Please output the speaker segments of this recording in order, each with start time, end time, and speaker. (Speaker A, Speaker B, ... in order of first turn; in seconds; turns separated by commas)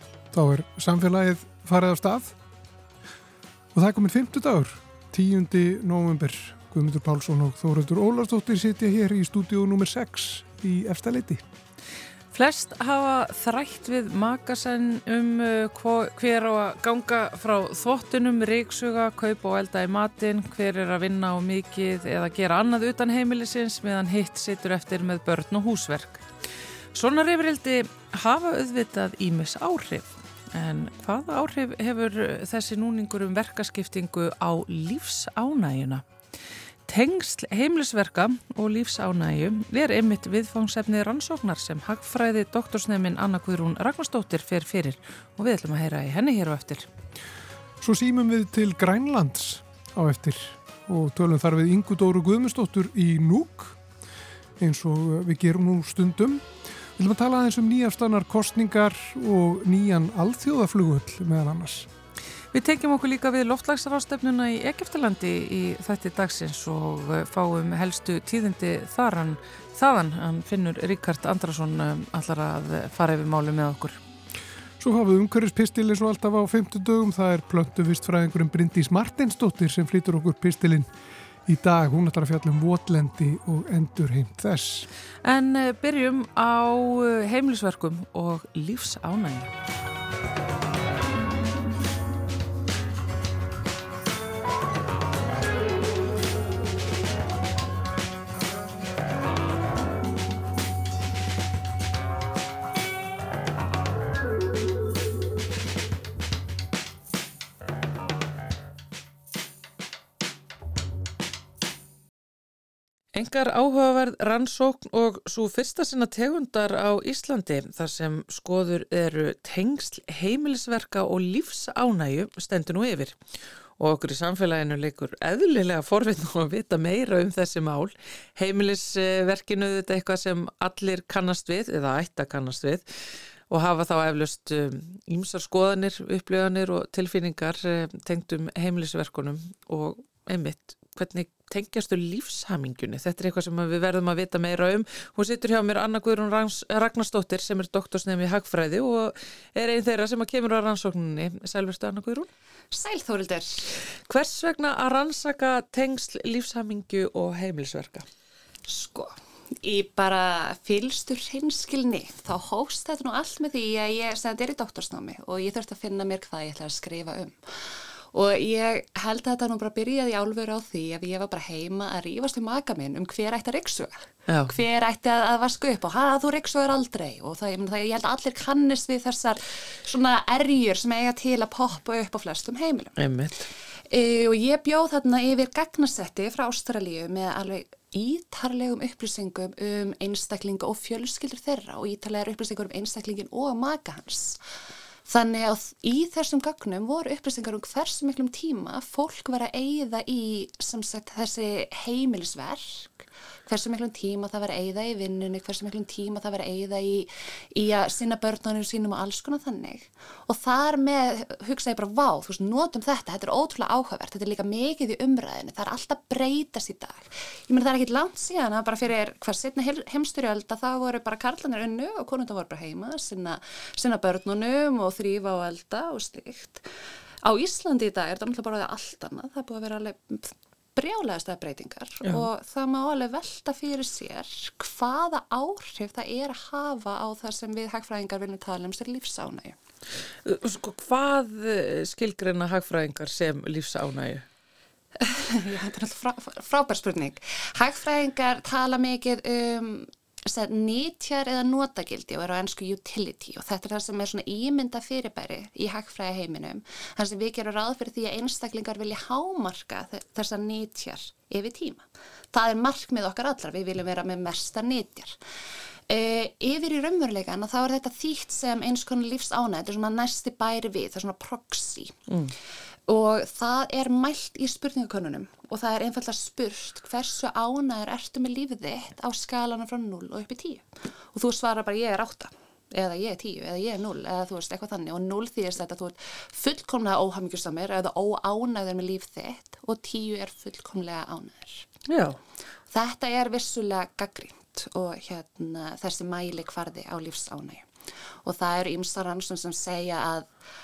Speaker A: 0.3-2.4, Speaker A: 3.7-11.4, Speaker B: 12.3-26.2, Speaker B: 26.9-36.0, Speaker B: 36.9-46.9, Speaker A: 47.8-53.8, Speaker A: 54.6-61.9, Speaker B: 62.5-74.0, Speaker A: 74.8-80.9, Speaker A: 81.5-84.9, Speaker B: 85.2-89.5, Speaker B: 113.1-123.2, Speaker B: 123.8-152.3, Speaker C: 152.7-153.7, Speaker B: 153.9-158.1, Speaker C: 158.7-183.0, Speaker B: 174.3-174.5, Speaker B: 183.0-183.4, Speaker C: 183.9-194.4, Speaker C: 195.1-226.7, Speaker C: 227.2-239.6, Speaker B: 240.2-244.2, Speaker C: 245.0-265.2, Speaker C: 265.9-272.0, Speaker B: 272.1-272.3, Speaker C: 272.9-291.7, Speaker B: 291.9-292.2, Speaker C: 292.7-300.3